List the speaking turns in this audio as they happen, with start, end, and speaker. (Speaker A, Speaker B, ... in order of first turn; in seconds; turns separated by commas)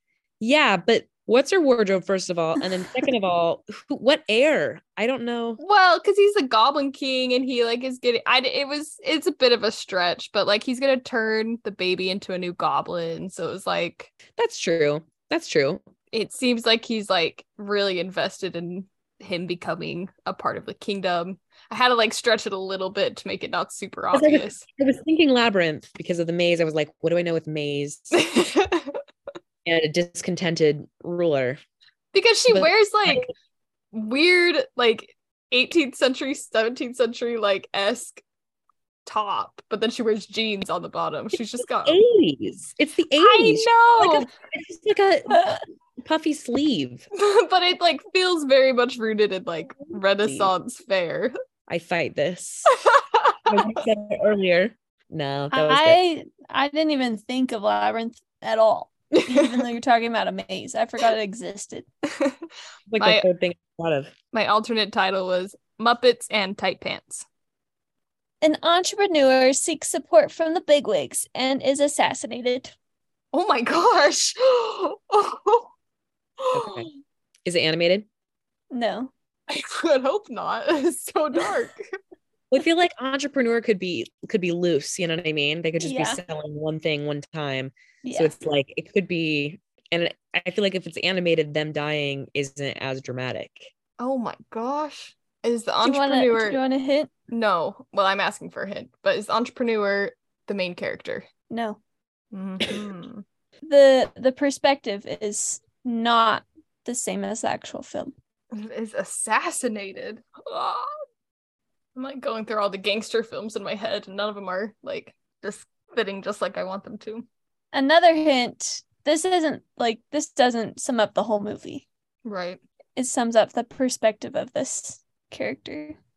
Speaker A: 0.4-5.6, Speaker B: 5.6-14.1, Speaker A: 14.4-15.8, Speaker B: 16.1-24.6, Speaker A: 24.1-28.2, Speaker B: 28.1-29.0, Speaker A: 29.6-31.6, Speaker B: 32.1-33.3, Speaker A: 32.5-33.3, Speaker B: 33.9-38.2, Speaker B: 39.1-42.0, Speaker A: 41.8-47.1, Speaker B: 43.2-44.3, Speaker B: 47.1-51.3, Speaker A: 50.2-50.5, Speaker A: 51.7-52.7, Speaker B: 52.7-53.7, Speaker A: 53.5-56.0, Speaker C: 55.5-61.9, Speaker B: 62.1-62.4, Speaker A: 62.9-64.1, Speaker B: 63.0-63.3, Speaker B: 64.3-67.3, Speaker C: 68.4-72.7, Speaker B: 73.3-75.7, Speaker B: 76.4-76.9, Speaker A: 76.5-76.9, Speaker A: 77.5-78.1, Speaker C: 78.7-79.1, Speaker B: 79.5-81.8, Speaker A: 82.5-93.7, Speaker C: 85.8-86.2, Speaker C: 88.0-88.3, Speaker B: 94.0-96.6, Speaker C: 95.8-97.1, Speaker B: 97.3-101.3, Speaker C: 101.5-101.8, Speaker B: 102.3-103.2, Speaker C: 103.7-108.1, Speaker B: 108.5-111.0, Speaker B: 112.0-117.3, Speaker C: 117.7-121.9, Speaker B: 122.2-122.6, Speaker C: 123.0-126.0